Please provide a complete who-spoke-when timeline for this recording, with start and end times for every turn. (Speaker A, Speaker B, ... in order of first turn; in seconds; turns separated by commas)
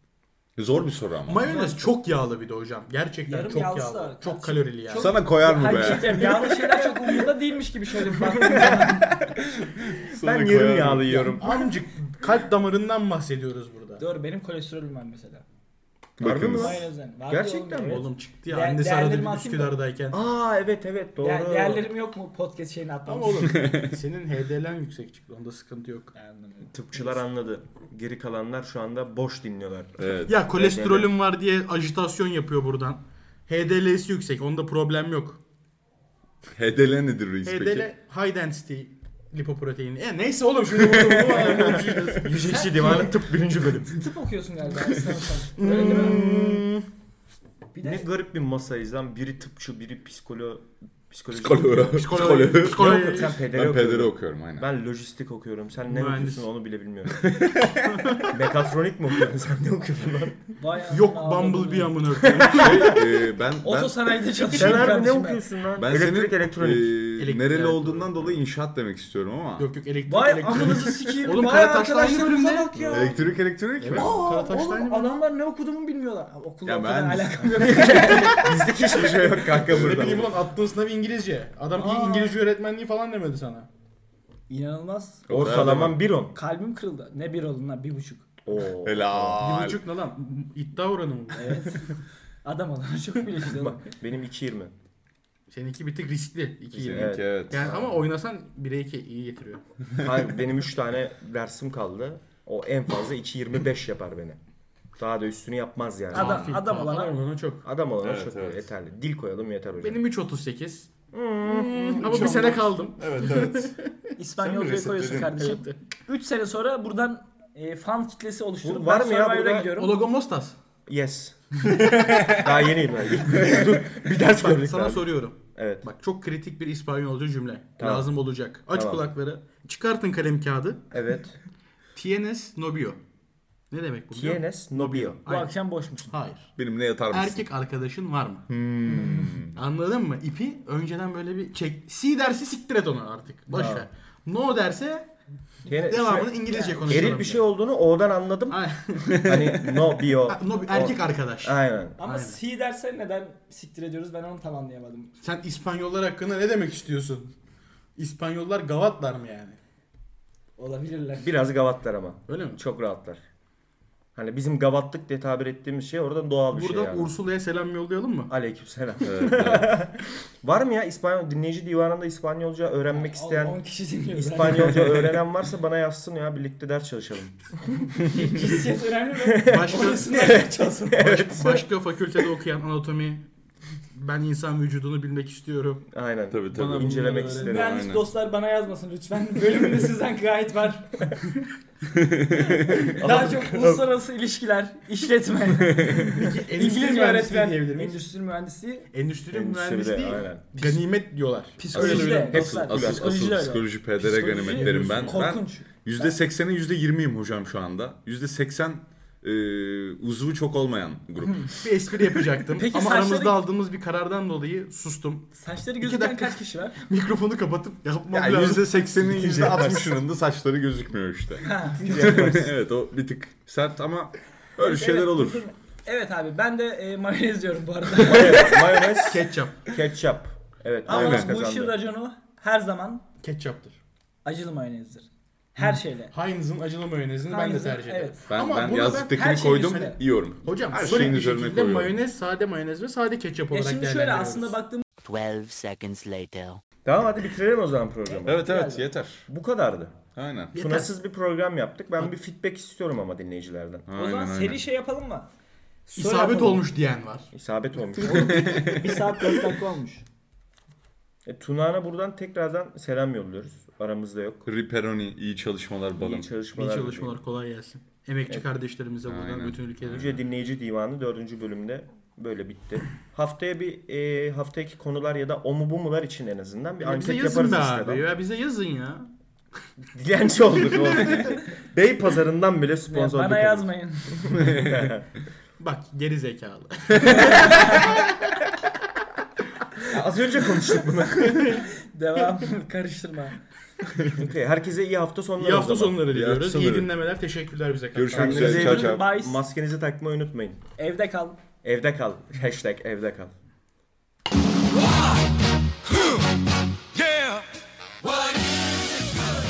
Speaker A: 0.6-1.5, Speaker B: 1.3-6.5, Speaker C: 1.5-1.9, Speaker C: 3.3-9.1, Speaker A: 4.9-6.5, Speaker D: 8.3-8.9, Speaker A: 9.2-11.4, Speaker D: 10.1-11.7, Speaker B: 11.4-14.0, Speaker C: 14.0-15.4, Speaker A: 16.2-16.9, Speaker D: 16.2-18.1, Speaker C: 16.3-19.7, Speaker B: 17.8-20.2, Speaker D: 20.1-21.9, Speaker C: 21.2-23.6, Speaker B: 23.1-26.1, Speaker C: 26.1-27.2, Speaker D: 26.6-31.1, Speaker A: 30.0-30.3, Speaker B: 30.3-35.4, Speaker A: 36.5-37.9, Speaker B: 37.5-43.1, Speaker D: 40.8-44.1, Speaker C: 42.4-43.1, Speaker C: 43.9-46.2, Speaker B: 45.6-46.8, Speaker A: 45.6-46.7, Speaker D: 45.8-46.4, Speaker C: 47.7-48.0, Speaker D: 47.8-57.3, Speaker A: 51.3-54.7, Speaker B: 51.9-53.5, Speaker B: 55.9-56.5, Speaker A: 57.1-58.2, Speaker B: 57.8-58.3, Speaker D: 58.3-60.4, Speaker C: 60.6-61.9, Speaker B: 60.9-63.0, Speaker D: 62.2-63.0, Speaker A: 62.5-64.2, Speaker C: 63.6-65.4, Speaker D: 64.5-66.9, Speaker A: 65.7-69.7, Speaker B: 67.2-68.4, Speaker B: 69.6-72.7, Speaker C: 70.1-73.2, Speaker D: 72.7-73.1, Speaker A: 72.9-74.2, Speaker B: 73.8-75.1, Speaker C: 73.9-78.5, Speaker A: 76.6-78.4, Speaker D: 78.3-80.3, Speaker B: 79.1-83.7, Speaker A: 79.7-80.3, Speaker C: 81.7-82.4, Speaker C: 84.5-85.3, Speaker A: 85.3-86.0, Speaker D: 85.3-86.4, Speaker C: 86.3-88.2, Speaker D: 88.5-89.4, Speaker A: 88.8-89.8, Speaker B: 89.4-91.9, Speaker C: 91.4-91.9, Speaker C: 92.4-93.8, Speaker D: 93.4-94.7, Speaker B: 95.5-99.6, Speaker A: 96.8-97.7, Speaker D: 96.8-98.0, Speaker D: 100.0-104.4, Speaker D: 105.0-106.5, Speaker C: 106.1-107.2, Speaker B: 106.1-107.6, Speaker D: 107.6-110.0, Speaker A: 108.0-108.7, Speaker B: 109.8-110.9, Speaker D: 111.1-112.6, Speaker B: 111.4-113.9, Speaker A: 112.0-113.7, Speaker C: 114.2-120.0, Speaker A: 114.4-115.4, Speaker B: 115.4-115.7, Speaker D: 118.6-119.7, Speaker B: 119.8-120.5, Speaker D: 120.9-125.9, Speaker A: 121.8-122.7, Speaker B: 124.2-130.8, Speaker D: 127.8-128.1, Speaker D: 128.7-129.1, Speaker D: 130.9-131.4, Speaker B: 131.9-133.0, Speaker B: 133.7-135.5, Speaker D: 134.1-135.2, Speaker C: 135.3-136.1, Speaker B: 136.1-136.5, Speaker A: 136.6-137.4, Speaker B: 137.1-138.5, Speaker A: 138.5-139.6, Speaker C: 138.9-139.3, Speaker B: 139.5-145.1, Speaker D: 143.5-143.8, Speaker D: 145.7-146.3, Speaker B: 145.7-147.5, Speaker C: 146.4-147.1, Speaker D: 146.9-152.0, Speaker B: 148.5-152.4, Speaker C: 152.0-155.1, Speaker B: 155.2-157.3, Speaker B: 158.0-159.6, Speaker C: 160.6-161.4, Speaker D: 161.2-163.2, Speaker B: 162.3-162.6, Speaker D: 164.1-167.1, Speaker B: 166.5-168.3, Speaker D: 168.3-173.6, Speaker A: 169.0-169.8, Speaker C: 172.9-175.2, Speaker D: 174.1-177.8, Speaker C: 178.0-181.1, Speaker B: 179.4-183.3, Speaker D: 179.5-181.6, Speaker B: 183.9-185.8, Speaker D: 185.9-187.8, Speaker A: 186.3-188.1, Speaker B: 186.5-187.6, Speaker C: 187.4-191.1, Speaker A: 191.9-192.8, Speaker C: 192.6-198.9, Speaker D: 192.8-193.8, Speaker A: 195.5-196.2, Speaker B: 196.0-198.0, Speaker B: 198.9-202.1, Speaker D: 199.3-200.8, Speaker C: 201.6-206.1, Speaker D: 201.7-203.3, Speaker A: 201.7-211.6, Speaker B: 204.1-205.3, Speaker B: 211.6-218.8, Speaker C: 212.6-213.4, Speaker C: 215.3-216.8, Speaker A: 218.1-225.4, Speaker D: 219.0-219.9, Speaker C: 221.4-222.4, Speaker D: 221.9-222.5, Speaker C: 224.6-229.1, Speaker D: 228.0-231.8, Speaker B: 229.1-229.6, Speaker C: 230.8-233.1, Speaker A: 230.9-231.3, Speaker B: 233.2-233.8, Speaker C: 234.2-236.1, Speaker B: 235.6-244.5, Speaker C: 237.3-238.2, Speaker A: 238.3-242.0, Speaker C: 239.1-240.0, Speaker C: 243.5-244.8, Speaker E: 245.0-246.6, Speaker D: 246.8-248.5, Speaker C: 248.1-248.9, Speaker A: 248.3-249.3, Speaker D: 249.3-250.0, Speaker A: 250.1-250.6, Speaker B: 250.5-250.9, Speaker D: 250.6-253.9, Speaker A: 253.9-254.6, Speaker C: 253.9-255.3, Speaker C: 255.9-256.6, Speaker B: 255.9-257.3, Speaker D: 257.3-258.6, Speaker B: 258.0-259.5, Speaker C: 258.0-260.0, Speaker A: 258.1-258.9, Speaker D: 261.3-264.4, Speaker A: 264.4-266.3, Speaker D: 266.0-267.2, Speaker B: 266.6-270.1, Speaker A: 269.1-270.2, Speaker D: 269.9-278.1, Speaker B: 276.8-279.1, Speaker D: 279.9-285.1, Speaker B: 280.6-281.4, Speaker C: 282.9-284.5, Speaker A: 284.3-284.9, Speaker B: 285.6-288.0, Speaker C: 287.1-288.0, Speaker D: 289.8-291.6, Speaker B: 291.1-291.6, Speaker C: 291.3-293.4, Speaker A: 293.9-294.2, Speaker D: 294.1-296.0, Speaker B: 295.4-298.8, Speaker A: 296.1-296.9, Speaker A: 297.9-299.1, Speaker D: 298.1-300.6, Speaker C: 298.6-299.4, Speaker C: 300.8-301.4, Speaker D: 301.6-303.3, Speaker E: 307.0-307.4, Speaker E: 308.1-309.0